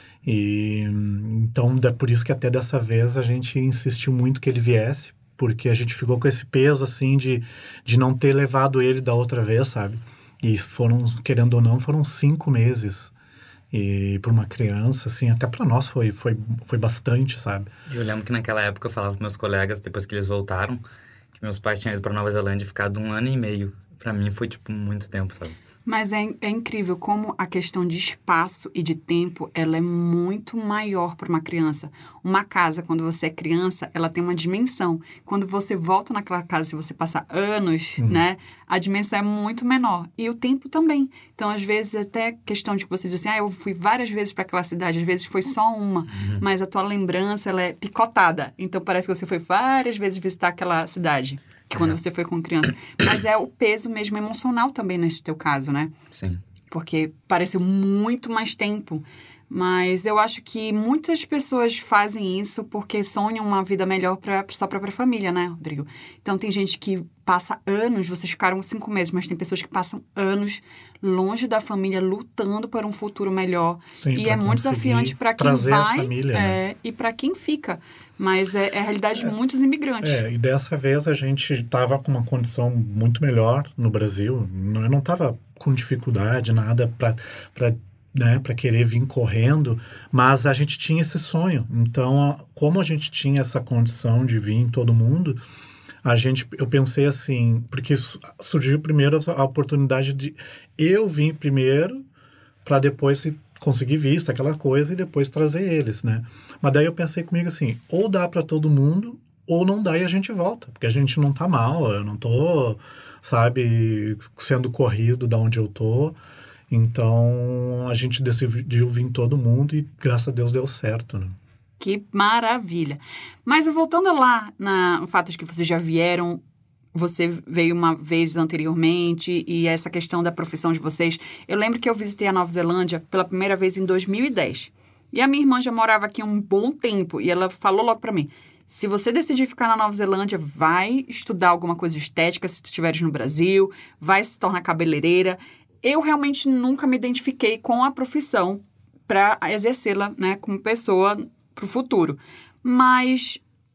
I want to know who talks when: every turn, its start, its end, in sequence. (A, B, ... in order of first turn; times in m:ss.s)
0:00.2-0:13.1 A
0:13.7-0:17.7 A
0:17.9-0:20.8 B
0:21.4-0:25.6 B
0:25.9-0:55.9 C
0:56.1-0:56.4 B
0:56.7-1:20.2 C
1:14.0-1:16.6 A
1:20.0-1:35.4 A
1:36.0-1:42.0 A
1:42.6-1:56.2 A
1:56.7-2:01.4 A
2:01.8-2:06.4 C
2:07.0-2:33.4 C